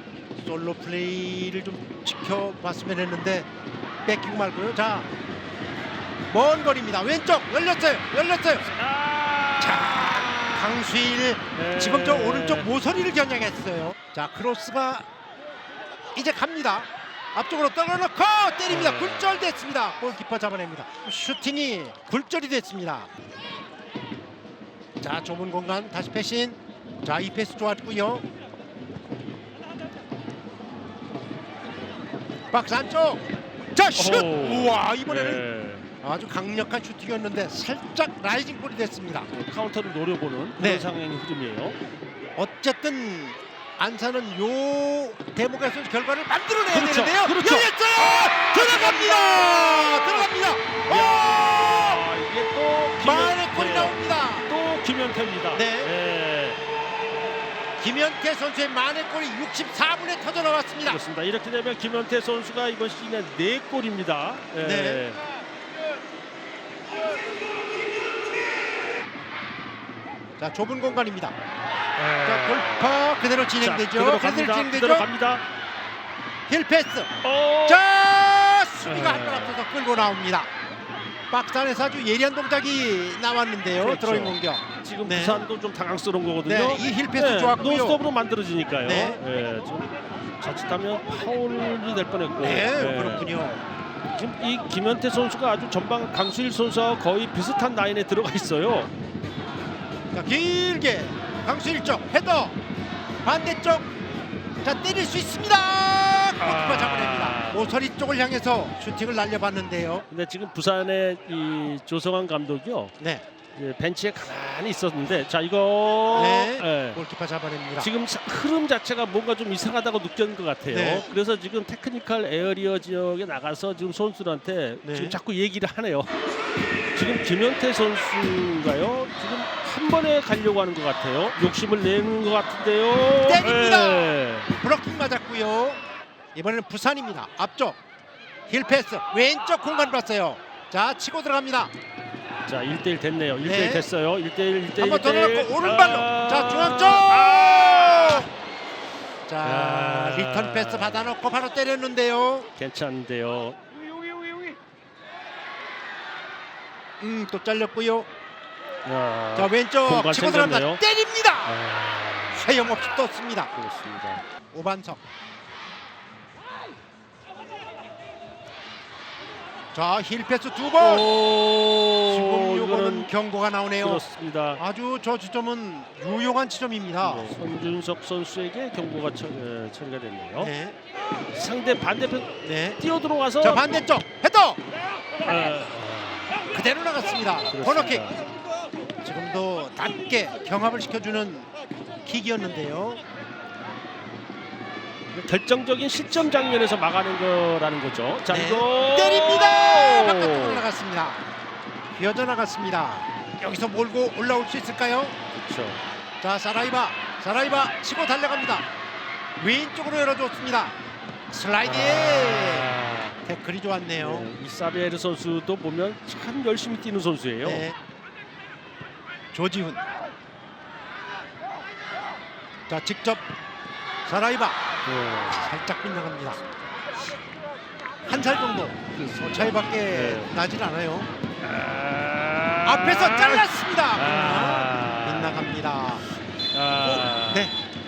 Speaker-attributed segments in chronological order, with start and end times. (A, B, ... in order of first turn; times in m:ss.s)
0:00.4-0:03.5 A
0:04.0-0:05.1 A
0:06.3-0:08.7 A
0:08.6-0:10.8 B
0:09.6-0:15.1 A
0:11.5-0:12.7 B
0:16.2-0:23.1 A
0:18.7-0:19.5 B
0:25.0-0:28.2 A
0:32.5-0:35.4 A
0:34.0-0:35.9 B
0:36.0-0:39.3 A
0:39.3-0:41.8 B
0:40.6-0:40.9 A
0:42.4-0:52.0 A
0:46.7-0:50.3 B
0:50.8-0:56.6 B
0:53.0-0:54.5 A
0:55.5-0:55.9 A
0:57.8-1:01.0 A
1:00.8-1:05.2 B
1:04.6-1:05.0 A
1:10.4-1:11.4 A
1:12.0-1:15.4 B
1:12.2-1:15.1 A
1:16.5-1:17.1 A
1:17.2-1:17.8 B
1:17.7-1:20.5 A
1:18.8-1:19.6 B
1:21.3-1:25.4 A
1:23.7-1:33.3 B
1:26.5-1:28.0 A
1:28.8-1:29.2 A
1:32.4-1:33.6 A
1:34.1-1:38.9 B
1:40.1-1:42.6 A
1:43.2-1:43.9 A
1:44.6-1:50.1 A
1:46.4-1:47.7 B
1:50.1-1:52.9 B
1:53.0-1:53.2 A
1:53.6-1:57.0 B
1:56.1-1:57.9 A
1:57.8-2:06.2 B
2:00.7-2:01.1 A
2:04.8-2:05.2 A
2:06.9-2:14.5 B
2:13.2-2:15.8 A
2:16.3-2:17.8 A
2:18.5-2:21.7 A
2:22.5-2:28.3 B
2:23.4-2:23.9 A
2:24.8-2:28.3 A
2:29.3-2:32.5 A
2:29.4-2:31.1 B
2:32.6-2:33.6 B
2:37.0-2:38.1 A
2:38.9-2:40.8 B
2:39.4-2:41.6 A
2:41.5-2:42.8 B
2:42.4-2:43.5 A
2:43.5-2:44.2 B
2:44.5-2:45.0 A
2:49.7-2:51.1 A
2:50.8-2:53.1 B
2:52.0-2:54.0 A
2:53.8-2:54.6 B
2:54.6-2:57.4 A
2:57.0-3:00.5 B
3:00.4-3:00.8 A
3:01.3-3:03.8 B
3:02.4-3:02.8 A
3:03.4-3:04.6 A
3:05.2-3:06.3 B
3:06.5-3:08.1 A
3:07.5-3:08.2 B
3:09.0-3:11.5 A
3:12.0-3:13.0 A
3:15.1-3:20.6 B
3:18.3-3:21.3 A
3:21.9-3:25.2 A
3:25.3-3:25.8 B
3:26.2-3:28.7 A
3:29.4-3:30.8 A
3:31.3-3:32.7 A
3:31.6-3:33.2 B
3:33.2-3:34.3 A
3:34.0-3:37.7 B
3:37.4-3:37.8 A
3:39.3-3:39.8 A
3:42.7-3:43.3 A
3:44.0-3:44.6 A
3:44.8-3:45.5 B
3:45.4-3:46.4 A
3:48.0-3:51.1 A
3:48.9-3:50.3 B
3:51.4-3:55.6 B
3:52.6-3:56.0 A
3:56.5-3:57.5 B
3:56.8-3:57.6 A